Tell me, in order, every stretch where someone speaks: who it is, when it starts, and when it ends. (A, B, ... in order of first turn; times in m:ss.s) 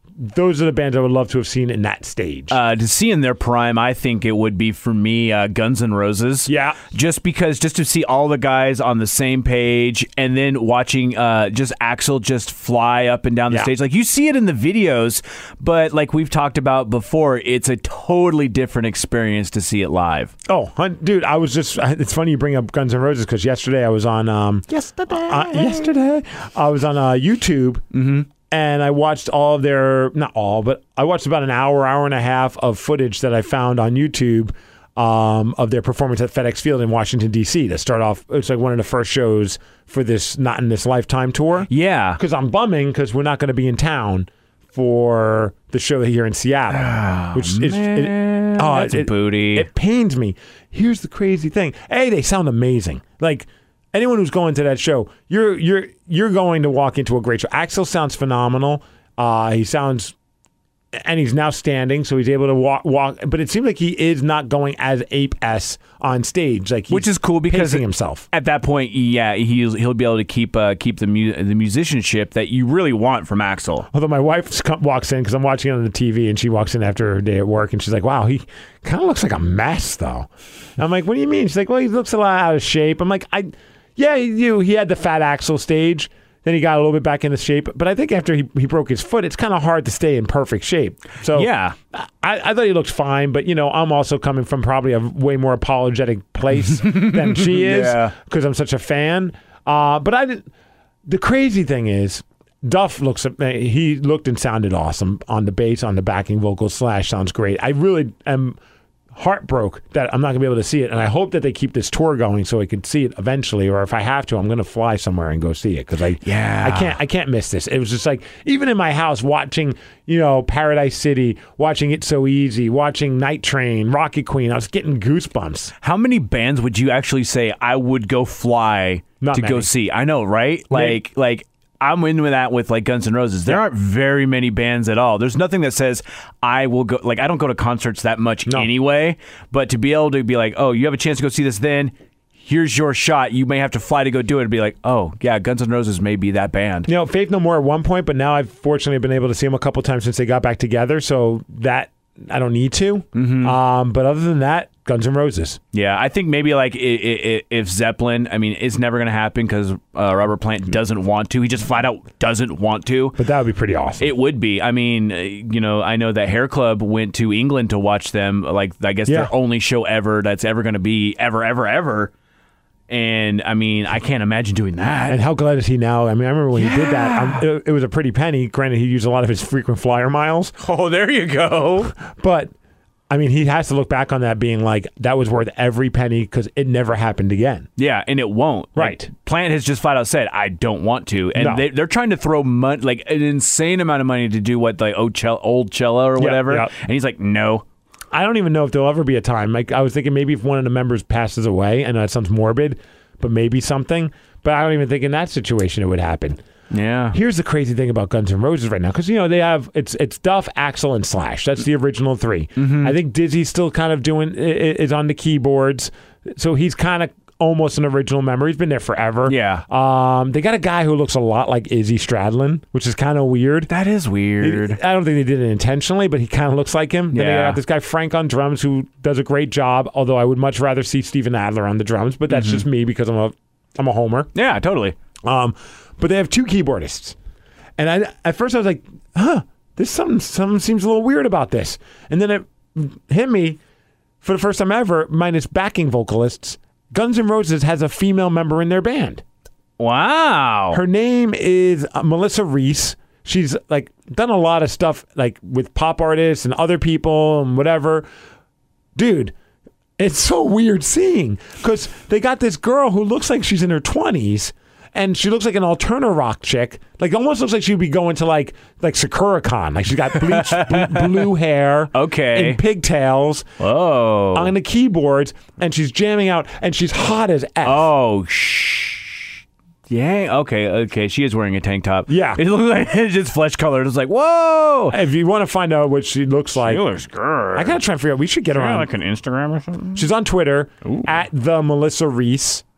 0:00.2-0:02.6 A
0:02.5-0:20.3 B
0:06.5-0:06.8 A
0:20.5-0:27.8 A
0:24.7-0:25.9 B
0:27.9-0:28.3 B
0:28.5-1:00.1 A
0:41.7-0:42.2 B
0:46.7-0:49.7 B
1:01.0-1:08.2 A
1:06.9-1:13.9 B
1:13.9-1:40.5 A
1:31.3-1:31.8 B
1:36.7-1:38.1 B
1:41.1-1:48.6 A
1:49.2-2:05.7 A
1:56.2-1:57.0 B
2:05.8-2:26.9 B
2:09.2-2:09.7 A
2:10.7-2:11.0 A
2:26.9-2:35.6 A
2:33.2-2:33.6 B
2:35.7-2:43.2 B
2:43.2-2:44.1 A
2:44.0-2:52.1 B
2:52.9-2:55.2 B
2:55.1-3:00.5 A
2:56.6-2:57.4 B
3:00.6-3:01.9 B
3:02.0-3:02.5 A
3:03.1-3:07.7 A
3:07.8-3:17.6 B
3:08.8-3:09.1 A
3:11.4-3:11.6 A
3:16.2-3:16.7 A
3:18.1-3:26.4 A
3:26.7-3:27.2 B
3:27.1-3:43.7 A
3:32.6-3:33.0 B
3:39.3-3:39.6 B
3:43.7-3:44.8 B
3:44.4-3:54.3 A
3:47.1-3:47.6 B
3:52.3-3:52.6 B
3:54.4-3:55.0 B
3:55.2-3:57.2 A
3:57.8-4:03.6 A
4:04.2-4:09.2 A
4:09.8-4:10.8 B
4:10.7-4:18.1 A
4:19.0-4:19.3 A
4:20.0-4:33.5 A
4:30.1-4:31.3 B
4:31.9-4:32.6 B
4:33.6-4:34.5 B
4:34.3-4:37.9 A
4:37.6-4:45.0 B
4:42.1-4:42.4 A
4:44.9-4:46.8 A
4:46.6-4:47.8 B
4:47.6-4:48.9 A
4:48.5-4:50.1 B
4:50.0-4:52.6 A
4:50.8-4:51.2 B